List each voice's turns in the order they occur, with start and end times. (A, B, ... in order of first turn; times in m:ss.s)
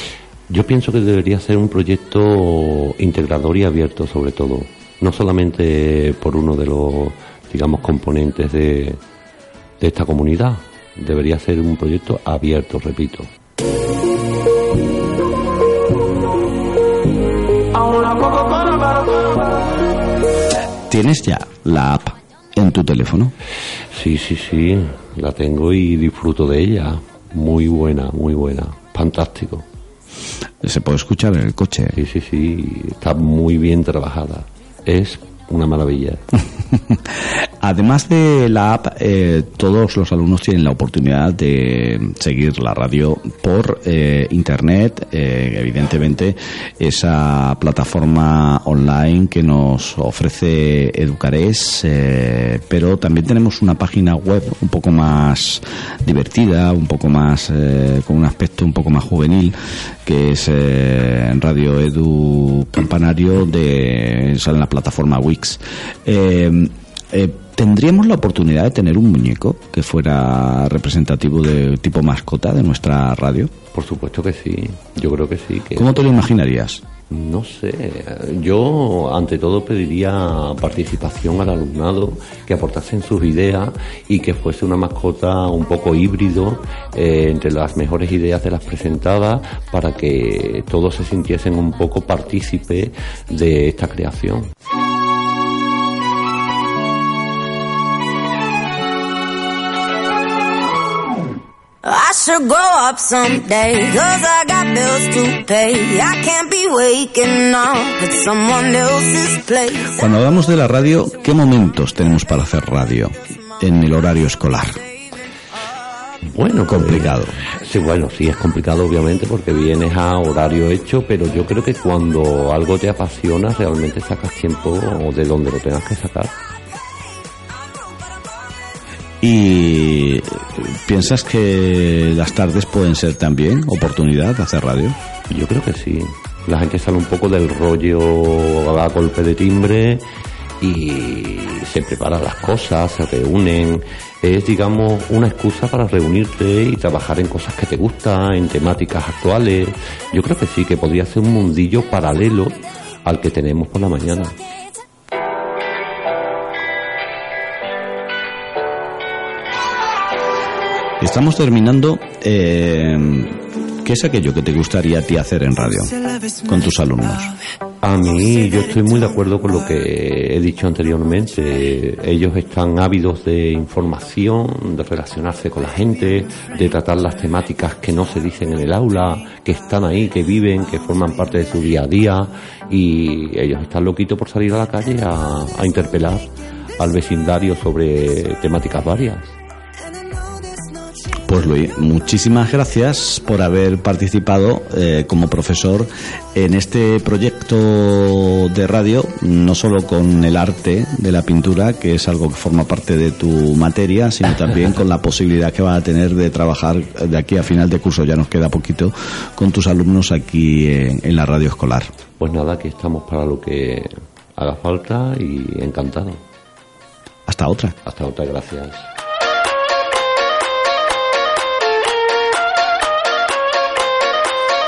0:00.5-0:09.0 A
0:09.8-0:13.3 A
0:20.9-0:23.3 B
0:23.9-0:29.6 A
0:30.6-0:32.0 B
0:31.9-0:36.2 A
0:37.6-1:13.5 B
1:13.7-1:16.0 A
1:15.8-1:16.8 B
1:17.1-1:34.5 A
1:41.8-1:50.0 C
1:50.0-1:54.7 B
1:56.3-2:06.3 A
1:56.7-1:57.4 B
2:09.2-2:15.0 B
2:15.3-2:20.0 A
2:20.6-2:34.4 A
2:41.0-2:45.9 B
2:46.5-2:47.3 B
2:47.8-3:06.3 A
3:06.8-3:09.4 A
3:11.3-3:31.9 B
3:32.2-3:36.2 A
3:37.3-3:37.8 B
3:37.8-3:38.9 A